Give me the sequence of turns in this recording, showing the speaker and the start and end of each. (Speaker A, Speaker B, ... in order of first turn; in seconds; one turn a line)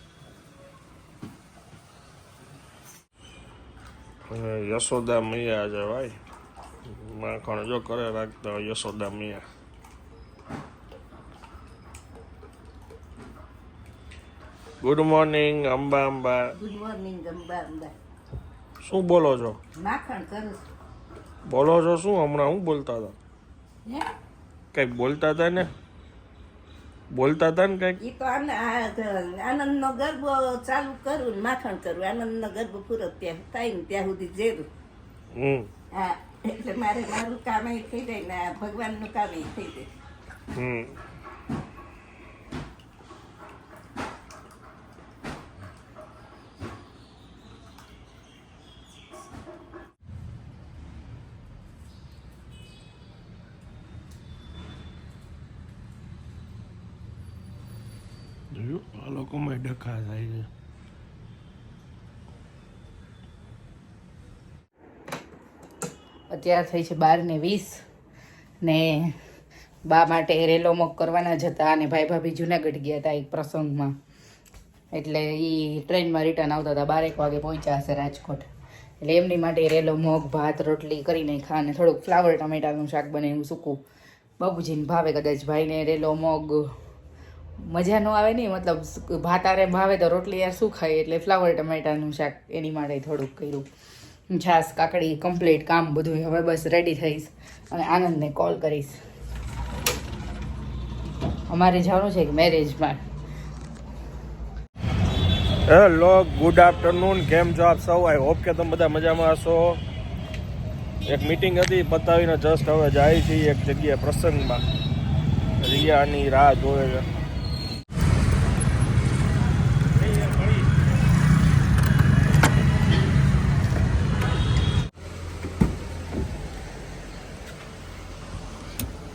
Speaker A: 4.3-6.2
Speaker A: 6.9-9.4
Speaker A: 14.8-16.5
Speaker B: 16.6-17.9
Speaker A: 18.8-19.6
Speaker B: 19.7-20.6
Speaker A: 21.4-23.1
Speaker A: 24.7-25.7
Speaker A: 27.1-28.0
Speaker B: 28.0-34.7
Speaker A: 35.3-35.7
Speaker B: 35.9-39.9
Speaker A: 40.5-40.9
Speaker A: 58.5-60.5
Speaker C: 66.3-67.8
Speaker C: 68.6-69.1
Speaker C: 69.8-74.0
Speaker C: 74.9-78.5
Speaker C: 79.0-83.8
Speaker C: 84.4-86.7
Speaker C: 87.6-93.7
Speaker C: 94.3-99.0
Speaker C: 101.5-103.0
Speaker A: 105.7-109.8
Speaker A: 111.1-114.6
Speaker A: 115.6-117.0
Speaker A: 120.0-120.7